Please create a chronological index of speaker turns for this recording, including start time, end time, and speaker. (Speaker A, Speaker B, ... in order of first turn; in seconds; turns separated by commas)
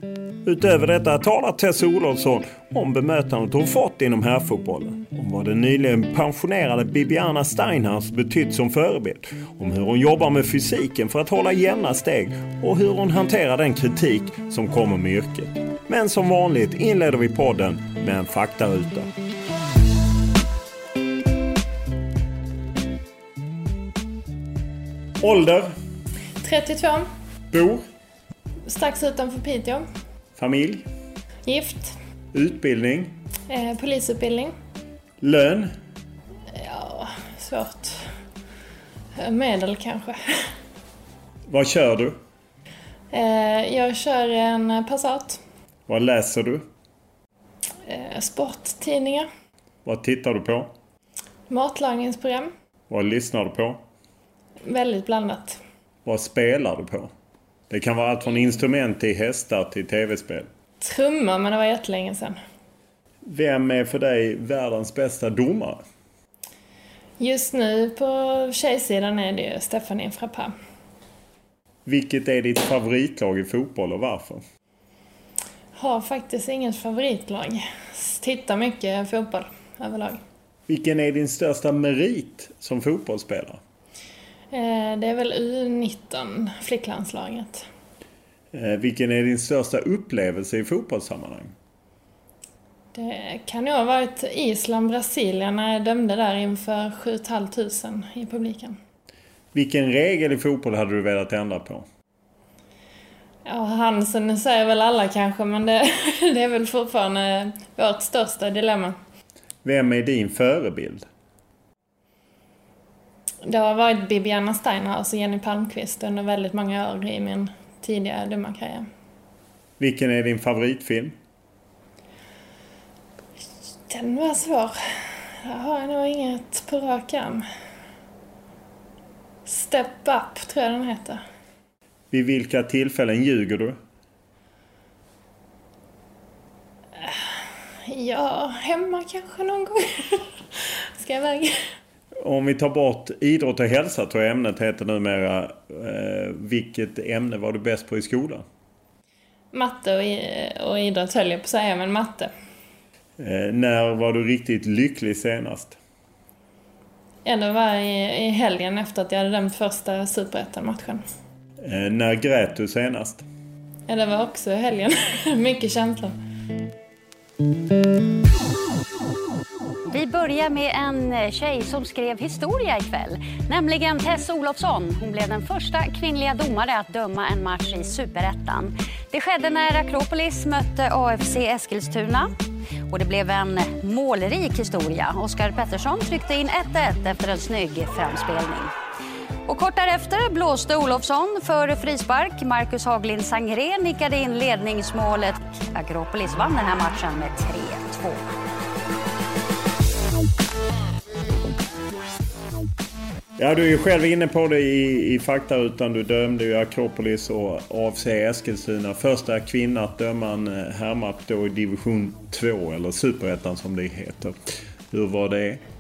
Speaker A: 0.4-19.1, Speaker A: 25.2-25.7, Speaker B: 26.4-27.1, Speaker A: 27.5-27.8, Speaker B: 28.7-29.8, Speaker A: 30.4-30.9, Speaker B: 31.4-31.9, Speaker A: 32.3-33.1, Speaker B: 33.5-34.5, Speaker A: 35.2-35.7, Speaker B: 36.5-38.0, Speaker B: 39.2-40.2, Speaker A: 41.5-42.2, Speaker B: 43.1-45.4, Speaker A: 45.9-46.6, Speaker B: 47.9-49.3, Speaker A: 49.8-50.7, Speaker B: 51.5-52.5, Speaker A: 52.9-53.8, Speaker B: 54.6-55.6, Speaker A: 56.0-57.1, Speaker A: 57.7-60.5, Speaker B: 60.8-62.4, Speaker A: 63.2-65.8, Speaker B: 67.2-70.5, Speaker A: 71.8-74.4, Speaker B: 75.8-80.2, Speaker A: 80.7-83.6, Speaker B: 84.5-87.7, Speaker A: 88.5-91.5, Speaker B: 92.9-98.8, Speaker A: 99.5-101.8, Speaker B: 103.4-109.0, Speaker A: 109.6-111.1, Speaker B: 113.4-118.9, Speaker A: 119.8-121.1, Speaker B: 123.9-127.5, Speaker B: 129.4-131.2, Speaker A: 132.1-133.8, Speaker B: 137.0-137.3, Speaker B: 137.8-141.5, Speaker A: 142.2-148.4, Speaker B: 149.5-152.3, Speaker A: 153.2-155.8, Speaker B: 157.2-161.0, Speaker A: 161.6-163.2, Speaker B: 163.9-166.1, Speaker C: 169.9-182.3, Speaker C: 182.9-188.7, Speaker C: 189.5-198.3, Speaker A: 203.4-215.6